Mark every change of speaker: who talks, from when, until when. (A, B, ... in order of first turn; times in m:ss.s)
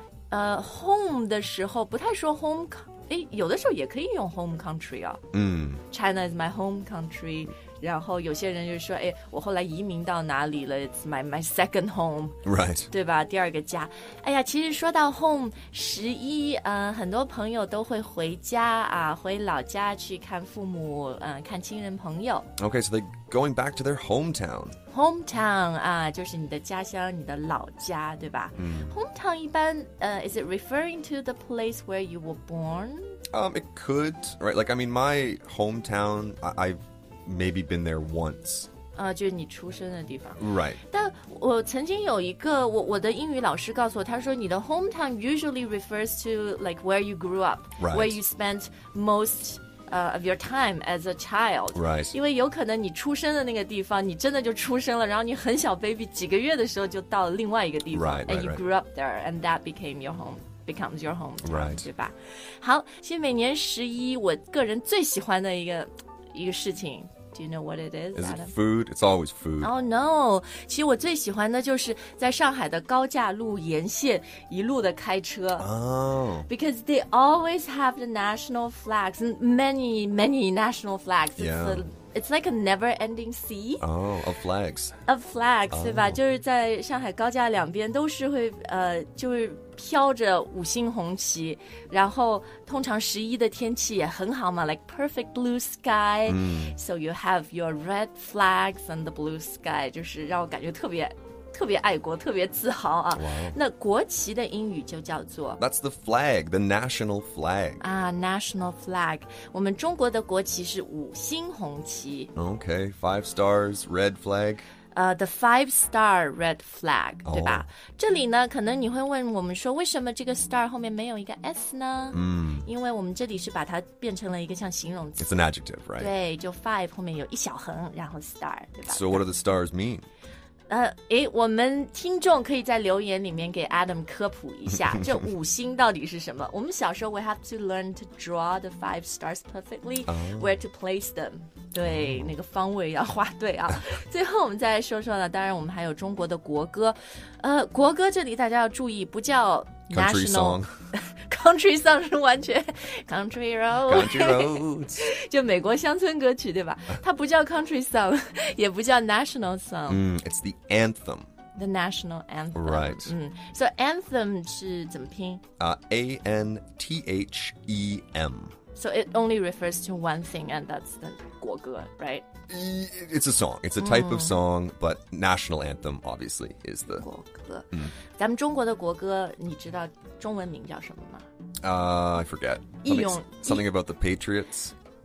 0:00.3-0:05.2 A
0:05.3-0:05.8 B
0:05.9-0:12.4 A
0:12.4-0:12.9 B
0:12.9-0:22.5 A
0:22.6-0:24.8 B
0:24.9-0:33.1 A
0:28.6-0:29.0 B
0:33.3-0:38.7 B
0:38.9-1:08.5 A
0:40.4-0:40.8 B
0:47.8-0:48.2 B
0:51.7-0:52.1 B
0:57.9-0:58.6 B
1:01.4-1:01.8 B
1:08.2-1:09.7 B
1:09.6-1:15.7 A
1:15.6-1:16.5 B
1:16.5-1:23.8 A
1:21.4-1:21.9 B
1:23.8-1:24.9 B
1:25.0-1:45.6 A
1:25.7-1:26.2 B
1:36.2-1:36.8 B
1:43.1-1:43.6 B
1:45.6-1:47.8 B
1:47.8-1:52.3 A
1:52.4-1:54.6 B
1:54.9-2:05.4 A
1:57.3-1:57.6 B
2:02.1-2:02.7 B
2:05.2-2:06.1 B
2:06.0-2:09.2 A
2:08.9-2:10.1 B
2:10.7-2:40.0 A
2:20.1-2:20.6 B
2:21.8-2:22.3 B
2:29.9-2:30.7 B
2:33.9-2:35.1 B
2:39.9-2:41.3 B
2:41.5-2:45.4 A
2:42.5-2:43.1 B
2:45.6-2:48.5 B
2:48.7-2:52.2 A
2:52.5-2:57.0 B
2:53.8-2:54.4 A
2:57.0-3:01.3 A
3:01.6-3:04.7 B
3:02.8-3:03.6 A